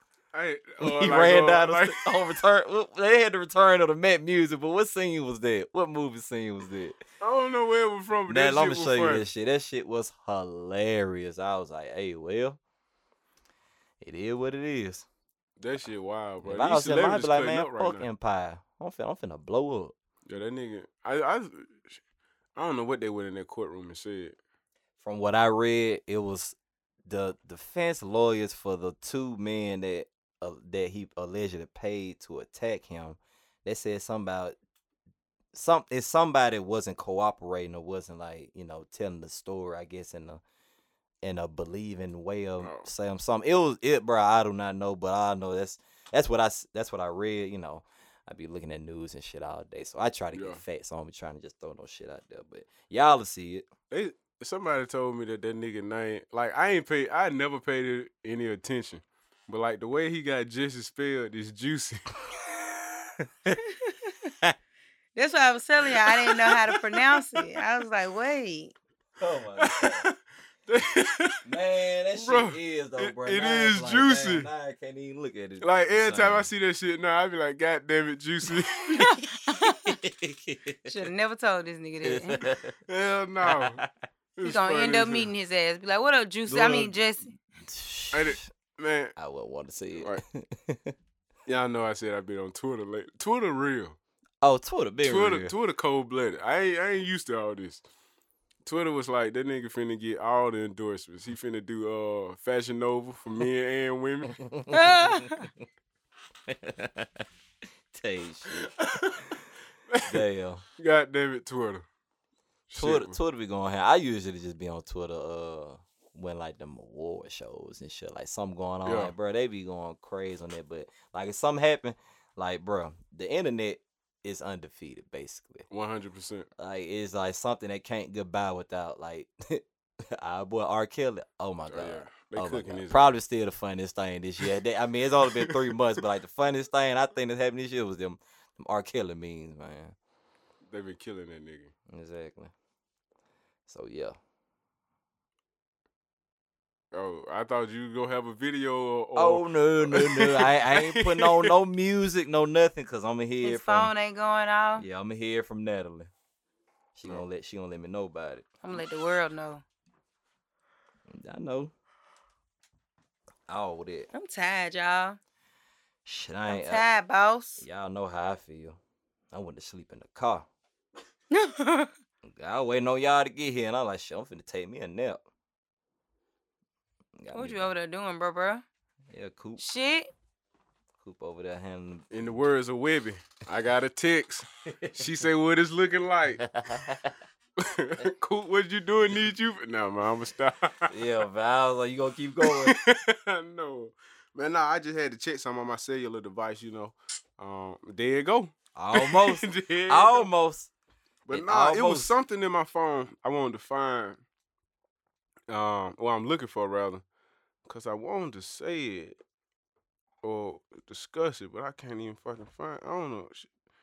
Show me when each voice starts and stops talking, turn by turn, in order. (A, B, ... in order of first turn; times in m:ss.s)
0:00.3-0:02.1 A
0:00.8-0:07.0 B
0:07.2-0:09.3 A
0:08.3-0:12.6 B
0:14.0-0:15.1 B
0:15.6-0:18.1 A
0:16.4-0:20.0 B
0:20.3-0:22.0 A
0:22.6-0:24.4 A
0:25.0-0:26.6 B
0:27.1-0:34.6 B
0:35.5-0:40.4 B
0:41.2-0:53.7 B
0:42.6-0:42.9 A
0:50.3-0:50.6 A
0:53.9-1:02.0 A
1:03.2-1:03.6 B
1:03.6-1:04.2 C
1:05.2-1:08.8 C
1:09.2-1:10.1 B
1:09.6-1:10.1 A
1:10.7-1:11.4 A
1:11.4-1:16.5 B
1:12.2-1:14.5 A
1:15.6-1:19.1 A
1:18.9-1:20.0 C
1:19.1-1:20.9 B
1:20.9-1:22.5 C
1:22.0-1:22.8 B
1:22.9-1:23.8 A
1:23.4-1:23.9 B
1:24.4-1:25.3 A
1:24.4-1:27.3 C
1:26.5-1:27.0 B
1:27.6-1:28.5 B
1:28.1-1:29.1 A
1:29.2-1:31.0 B
1:31.5-1:34.0 A
1:34.4-1:35.5 B
1:35.0-1:37.8 A
1:38.6-1:44.4 A
1:44.4-1:45.5 B
1:44.7-1:45.5 C
1:46.5-1:47.2 B
1:47.9-1:48.7 B
1:48.5-1:49.4 A
1:49.9-1:50.2 A
1:50.1-1:50.6 B
1:50.8-1:51.9 A
1:52.7-1:53.2 A
1:52.8-2:05.7 B
1:58.8-1:59.1 A
2:05.7-2:06.5 A
2:06.6-2:20.0 B
2:11.7-2:13.1 A
2:15.3-2:15.8 A
2:20.7-2:21.7 A
2:21.9-2:22.5 B
2:23.7-2:24.2 B
2:26.9-2:31.5 A
2:29.2-2:33.9 B
2:33.4-2:34.9 C
2:34.8-2:36.1 B
2:37.0-2:38.6 B
2:38.6-2:39.6 C
2:41.1-2:41.7 B
2:43.5-2:44.1 B
2:44.1-2:45.2 C
2:46.0-2:46.8 B
2:46.5-2:47.6 C
2:47.6-2:48.8 B
2:49.3-2:50.5 B
2:51.3-2:51.9 C
2:52.2-2:55.2 B
2:57.2-2:57.7 B
2:57.3-2:58.6 C
2:59.1-2:59.6 B
2:59.6-3:00.1 C
3:01.0-3:02.1 B
3:02.1-3:06.5 A
3:04.7-3:05.0 B
3:06.4-3:07.2 B
3:07.6-3:10.9 A
3:10.9-3:12.8 B
3:12.4-3:20.3 A
3:18.8-3:20.7 B
3:21.3-3:24.2 A
3:21.3-3:22.2 B
3:25.5-3:27.0 A
3:27.7-3:29.2 A
3:30.2-3:33.5 A